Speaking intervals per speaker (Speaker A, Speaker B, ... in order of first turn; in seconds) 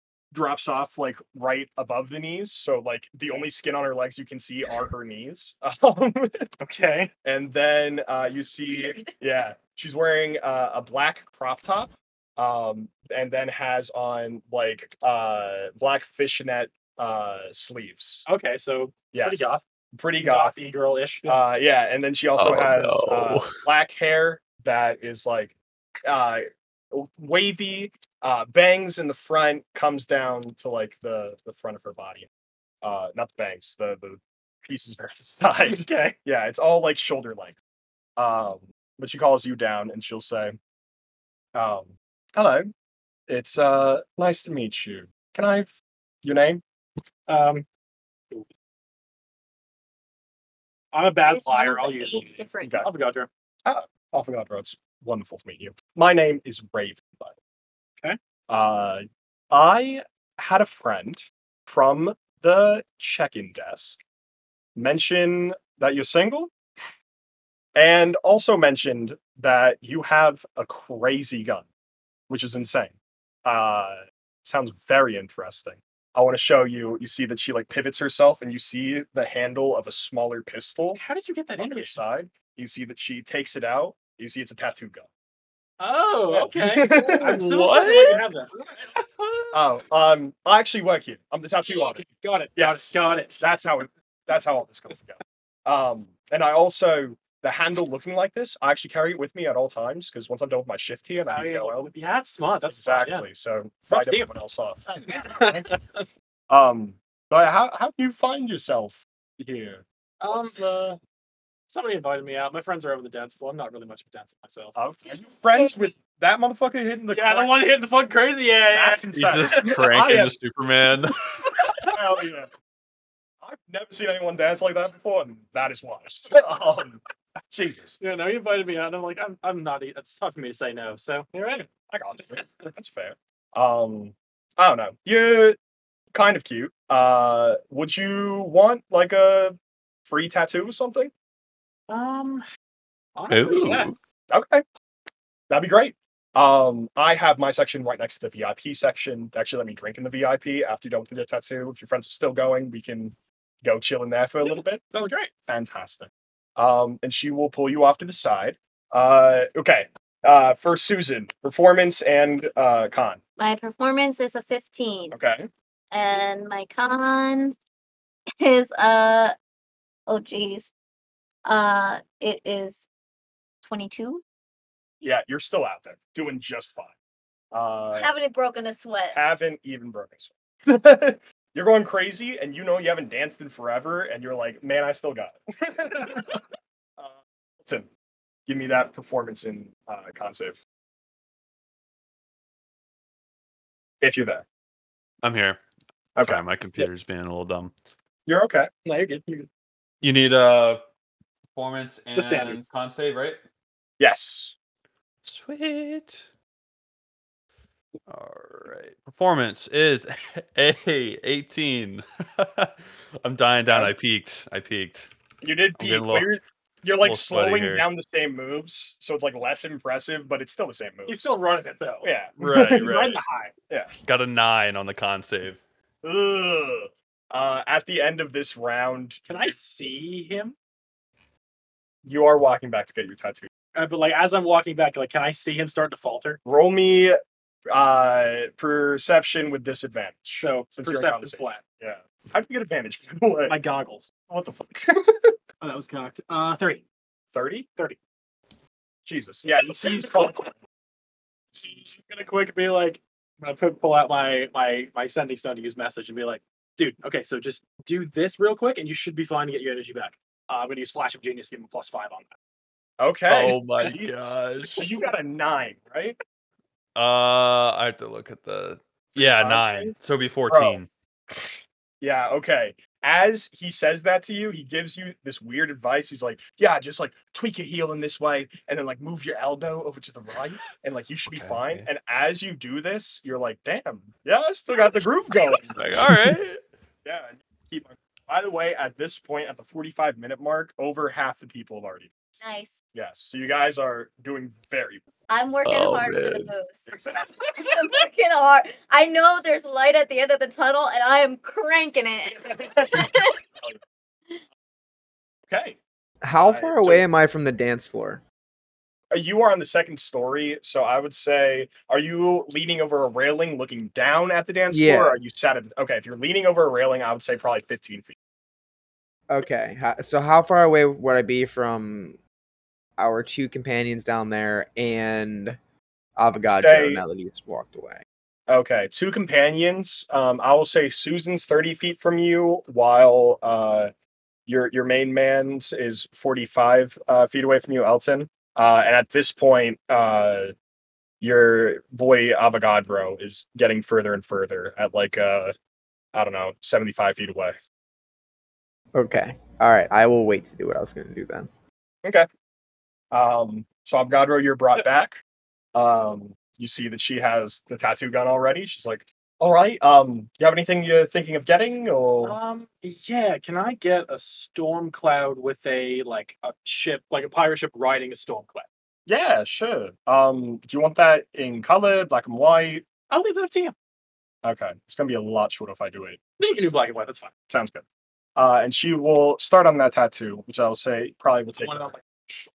Speaker A: 0.3-6.5, 7.2-18.2, 19.1-20.6, 21.2-32.3, 32.8-37.5, 38.2-40.5, 41.5-42.7, 43.3-46.6, 53.6-57.3, 58.5-64.0, 64.8-66.5, 67.7-71.7, 72.3-72.9, 73.4-81.0, 81.6-85.1, 86.3-88.2, 89.5-92.0, 92.6-101.9, 102.7-105.7, 106.5-110.8, 114.7-117.5, 118.7-120.3, 121.9-122.5, 123.4-128.0, 131.9-135.6, 136.1-141.1, 144.3-144.6, 145.5-154.8, 155.5-163.2, 165.1-165.5, 175.0-176.9, 177.5-178.1, 179.1-186.4, 187.0-187.9, 188.5-190.6, 194.0-194.4, 196.2-196.8, 198.3-198.7, 204.0-204.5, 215.4-221.3, 222.0-223.2, 226.0-229.5, 232.0-233.5, 236.4-237.2, 237.7-243.6, 244.2-245.3, 247.3-247.7, 249.0-250.5, 263.0-266.2, 269.1-269.9, 270.5-270.8, 271.3-286.1, 287.0-292.1, 292.9-295.0, 296.9-297.5, 302.4-303.8, 305.5-305.8, 306.4-307.1, 309.1-318.1, 326.5-327.0, 328.5-333.9, 334.5-340.5, 341.2-345.5, 346.1-347.6, 353.1-355.2, 355.7-362.4, 369.1-373.0, 374.4-376.7, 377.5-377.8, 378.4-381.9
Speaker B: 6.6-7.1, 18.2-19.6, 20.2-21.4, 35.6-36.2, 47.3-47.6, 50.9-53.3, 81.0-82.0, 85.8-88.7, 91.6-93.4, 101.3-103.2, 103.9-104.3, 104.9-106.1, 110.2-111.0, 111.7-114.8, 117.1-119.8, 128.0-131.7, 132.3-132.7, 141.9-142.4, 143.2-143.9, 154.4-155.3, 198.8-199.5, 202.1-202.6, 221.1-222.1, 222.7-223.5, 229.3-230.5, 233.7-236.4, 240.3-241.6, 243.4-244.1, 245.6-246.8, 251.5-262.3, 362.2-368.6, 373.0-373.7, 376.4-377.3, 381.6-382.5
Speaker C: 22.4-23.6, 87.2-88.2, 88.9-89.5, 119.1-121.3, 143.3-143.9, 195.2-195.6, 196.2-197.7, 200.0-200.8, 201.5-203.4, 205.2-206.2, 208.1-215.1, 215.8-216.3, 217.0-217.8, 222.4-223.1, 224.0-225.6, 263.3-264.9, 266.9-270.9, 281.3-281.9, 285.7-286.6, 295.6-296.5
Speaker D: 51.2-52.8, 115.5-115.8, 163.4-165.2, 165.9-167.6, 168.4-169.3, 170.1-170.7, 171.4-172.9, 173.6-174.2, 177.9-179.2, 292.4-292.7, 295.3-296.9, 297.6-303.4
Speaker E: 306.2-308.2, 314.7-315.2, 319.3-322.2, 323.0-325.6, 326.2-328.0, 348.9-351.5